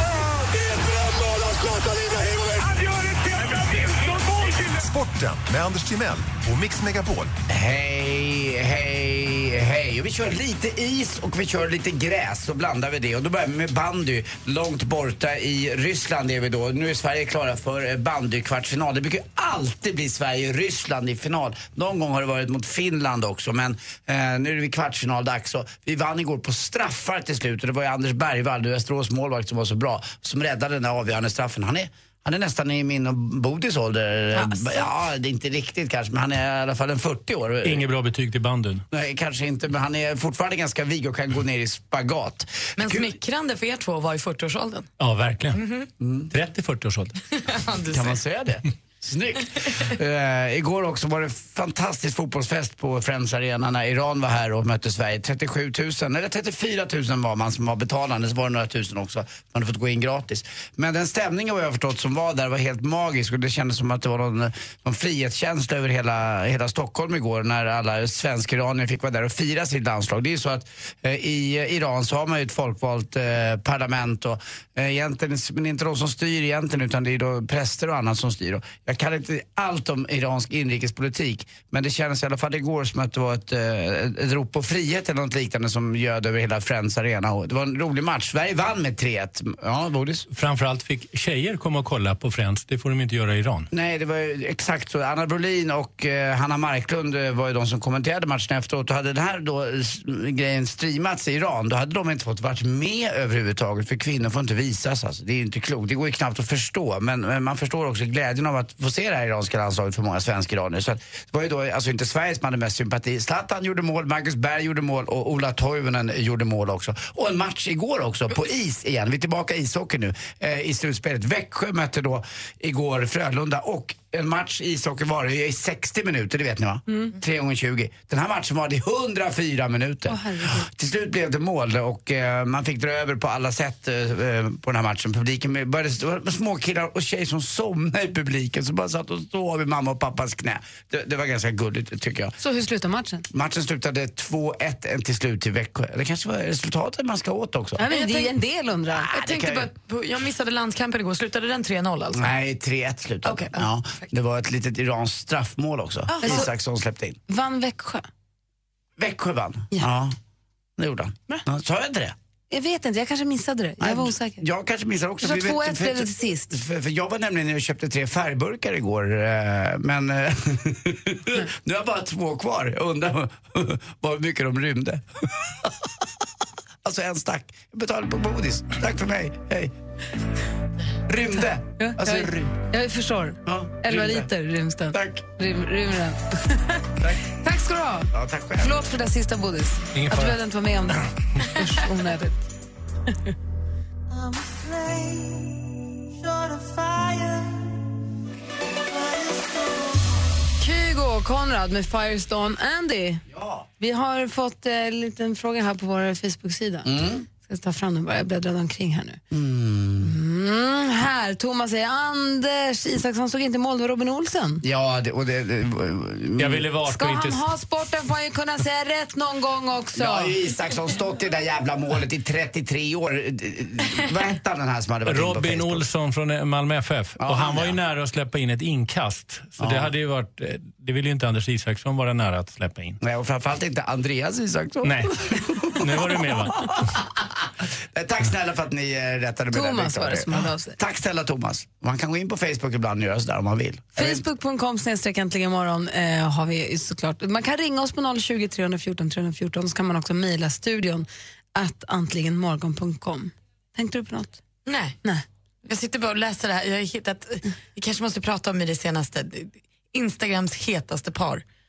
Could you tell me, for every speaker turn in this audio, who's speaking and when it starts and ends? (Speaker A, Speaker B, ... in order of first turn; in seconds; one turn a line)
Speaker A: 0.7-7.3
Speaker B: 7.5-37.9
Speaker C: 37.6-38.8
Speaker B: 38.9-43.1
Speaker D: 42.8-44.9
Speaker C: 45.0-45.6
Speaker D: 45.5-45.9
Speaker B: 46.0-46.3
Speaker C: 46.3-47.2
Speaker D: 47.4-48.2
Speaker B: 47.9-90.3
Speaker C: 90.3-93.7
Speaker B: 93.7-142.3
Speaker E: 130.1-130.7
Speaker E: 142.4-143.3
Speaker B: 143.3-147.8
Speaker E: 147.8-149.1
Speaker D: 147.9-148.3
Speaker B: 148.9-149.7
Speaker D: 149.2-152.3
Speaker B: 152.2-157.2
Speaker D: 153.2-154.1
Speaker E: 156.2-156.5
Speaker E: 157.3-158.1
Speaker B: 159.0-160.2
Speaker B: 160.8-162.2
Speaker E: 162.5-164.4
Speaker B: 163.8-176.1
Speaker E: 165.2-166.6
Speaker B: 176.8-179.7
Speaker B: 181.1-182.5
Speaker E: 181.8-192.5
Speaker B: 183.5-184.3
Speaker B: 184.9-185.2
Speaker B: 188.1-188.8
Speaker C: 189.9-190.4
Speaker B: 194.1-195.6
Speaker B: 196.2-197.7
Speaker B: 198.8-200.1
Speaker E: 200.6-203.2
Speaker B: 203.3-203.7
Speaker E: 203.8-209.2
Speaker B: 206.8-207.3
Speaker B: 209.3-210.2
Speaker E: 210.0-214.6
Speaker B: 214.6-216.7
Speaker C: 216.4-217.4
Speaker E: 216.9-220.4
Speaker B: 219.9-225.8
Speaker C: 225.1-233.0
Speaker B: 227.2-227.8
Speaker B: 229.6-229.9
Speaker B: 233.0-244.2
Speaker C: 234.8-236.8
Speaker E: 239.5-240.8
Speaker E: 244.0-254.4
Speaker D: 254.7-255.0
Speaker D: 255.7-261.4